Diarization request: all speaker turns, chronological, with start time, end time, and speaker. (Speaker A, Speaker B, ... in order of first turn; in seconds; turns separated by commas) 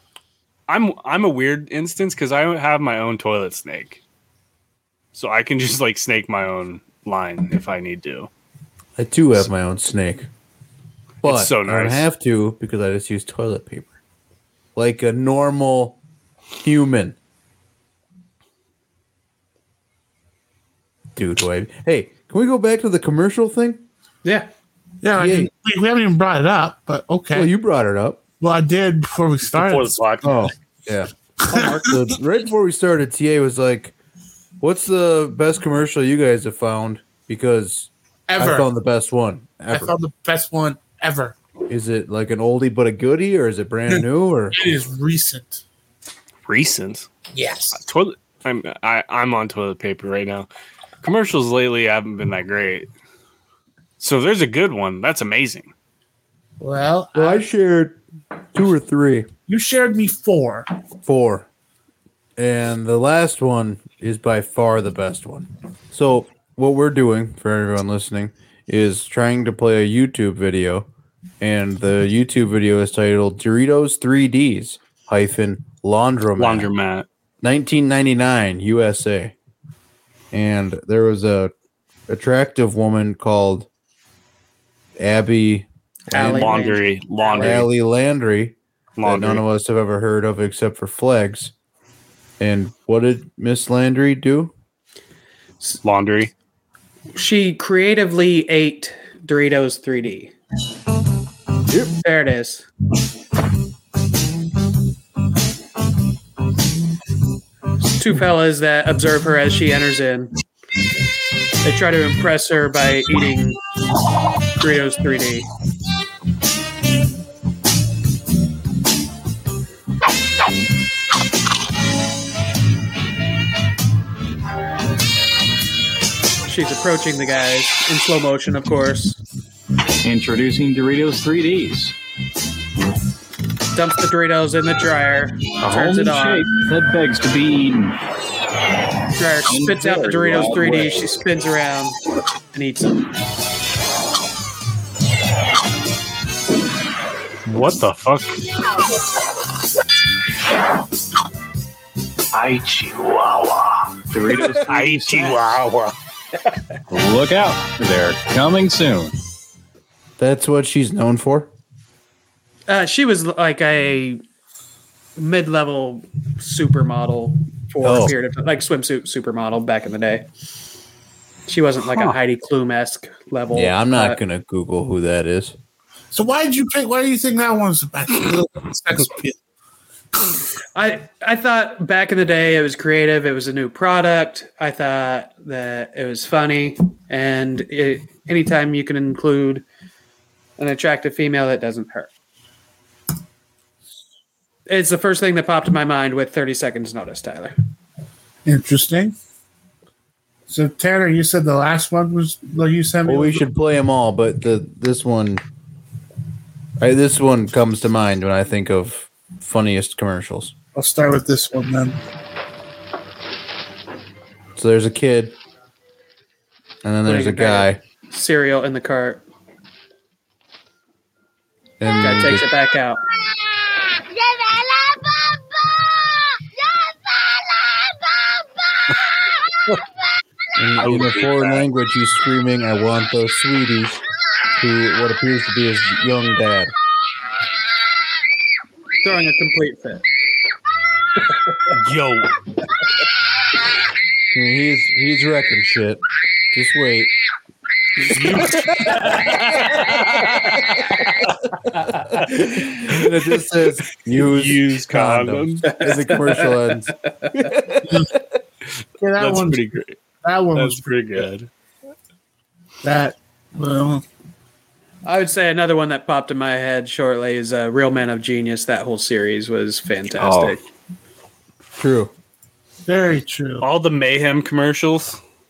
Speaker A: 0.7-4.0, Speaker A: 5.1-8.3, Speaker B: 9.0-10.3, Speaker B: 11.2-13.9, Speaker A: 11.2-12.1, Speaker B: 14.8-16.0, Speaker B: 16.6-17.1, Speaker B: 21.2-23.8, Speaker C: 25.0-27.5, Speaker B: 25.2-25.5, Speaker B: 27.3-28.2, Speaker C: 28.4-30.0, Speaker A: 29.5-30.3, Speaker B: 30.2-31.1, Speaker D: 31.5-31.8, Speaker C: 31.5-31.8, Speaker B: 31.7-33.9, Speaker B: 34.6-39.9, Speaker C: 38.3-38.7, Speaker C: 39.7-41.4, Speaker B: 41.7-44.6, Speaker C: 44.5-45.6, Speaker A: 46.5-47.1, Speaker C: 47.3-47.8, Speaker A: 47.8-50.5, Speaker A: 51.0-52.9, Speaker A: 54.0-55.7, Speaker C: 56.6-57.5, Speaker B: 57.1-58.0, Speaker B: 58.5-59.3, Speaker C: 59.5-60.7, Speaker B: 61.0-61.5, Speaker B: 62.4-70.9, Speaker B: 71.4-76.7, Speaker A: 76.4-77.1, Speaker B: 77.4-79.3, Speaker B: 80.3-81.5, Speaker B: 82.1-83.7, Speaker B: 85.0-86.7, Speaker D: 86.1-87.6, Speaker A: 86.2-87.7, Speaker B: 87.3-91.5, Speaker A: 89.0-89.4, Speaker B: 92.4-94.5, Speaker A: 95.8-96.3, Speaker D: 97.2-100.3, Speaker D: 102.0-102.7, Speaker D: 107.9-110.3, Speaker D: 111.6-113.6, Speaker D: 114.6-115.5, Speaker D: 126.5-129.2, Speaker E: 130.0-131.9, Speaker D: 133.7-136.5, Speaker E: 135.6-138.0, Speaker D: 139.2-142.0, Speaker E: 139.5-141.1, Speaker D: 142.5-143.0, Speaker A: 147.5-148.4, Speaker E: 152.3-155.6, Speaker A: 154.6-155.9, Speaker E: 156.9-159.1, Speaker B: 160.2-161.5, Speaker D: 162.7-164.2, Speaker D: 165.2-170.2, Speaker B: 167.8-168.1, Speaker D: 171.5-174.2, Speaker B: 173.5-175.6, Speaker C: 176.1-179.4, Speaker D: 180.8-189.6, Speaker D: 190.6-192.1, Speaker D: 194.7-197.6, Speaker C: 198.5-199.2, Speaker C: 200.5-203.4, Speaker B: 203.1-205.4, Speaker B: 206.8-210.5, Speaker C: 210.8-212.0, Speaker B: 214.6-215.3, Speaker B: 216.8-217.8, Speaker D: 217.1-219.2, Speaker B: 221.8-222.5, Speaker D: 222.0-223.0, Speaker B: 230.6-234.0, Speaker A: 230.8-231.6, Speaker B: 234.6-236.7, Speaker D: 239.0-240.0, Speaker A: 241.7-242.3, Speaker B: 244.3-247.1, Speaker A: 248.2-248.8, Speaker D: 249.2-249.7, Speaker B: 252.3-258.0, Speaker A: 254.1-255.7, Speaker D: 255.7-257.4, Speaker C: 259.0-259.7, Speaker A: 259.2-260.0, Speaker C: 260.2-260.9, Speaker A: 260.6-261.5, Speaker C: 262.8-264.0, Speaker D: 265.1-270.6, Speaker A: 270.2-270.5, Speaker B: 271.7-272.1, Speaker C: 272.9-273.6, Speaker A: 273.6-275.2